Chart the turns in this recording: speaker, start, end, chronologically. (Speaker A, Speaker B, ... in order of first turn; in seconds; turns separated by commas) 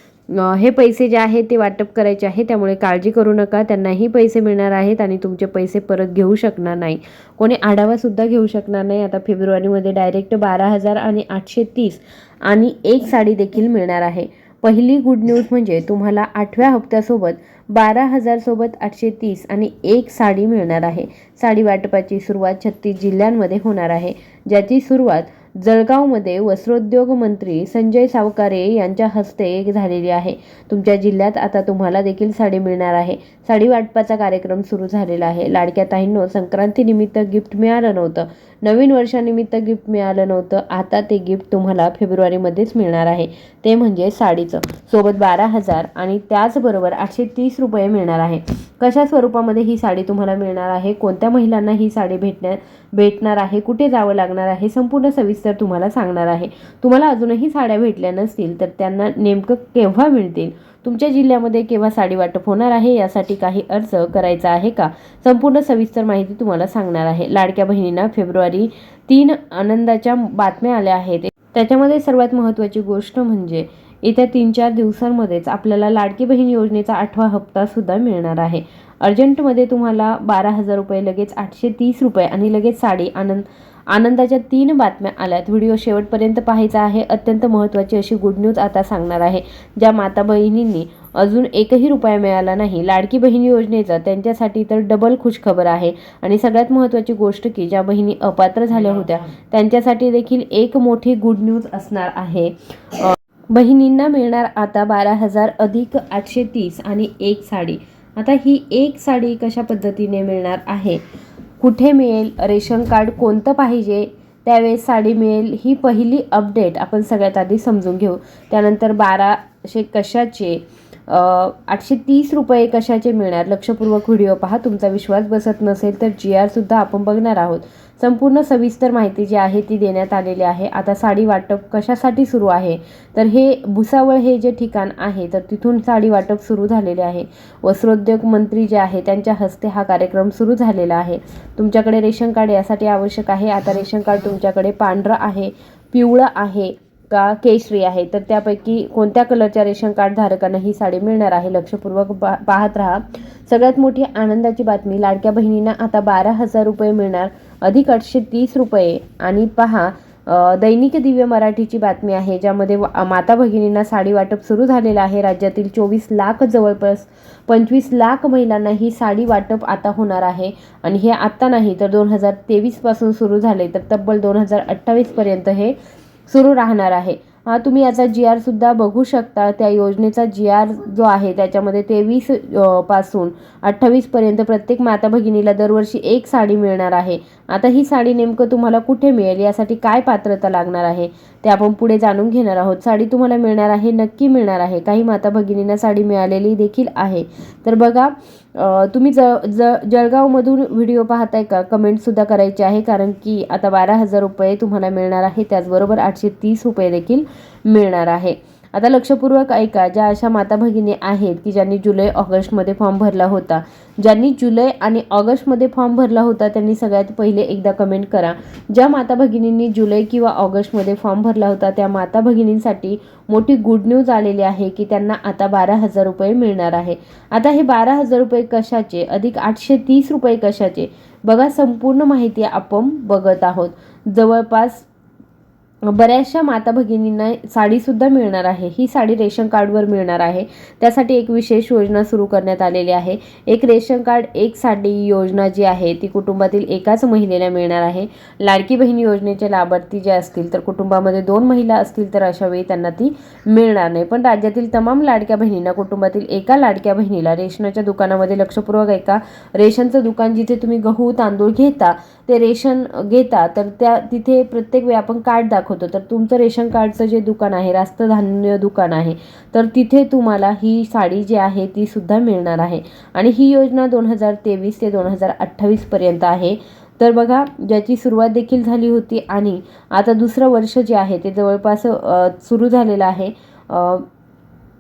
Speaker A: 0.3-111.0, Speaker A: 111.6-175.8, Speaker A: 176.3-234.9, Speaker A: 235.9-284.1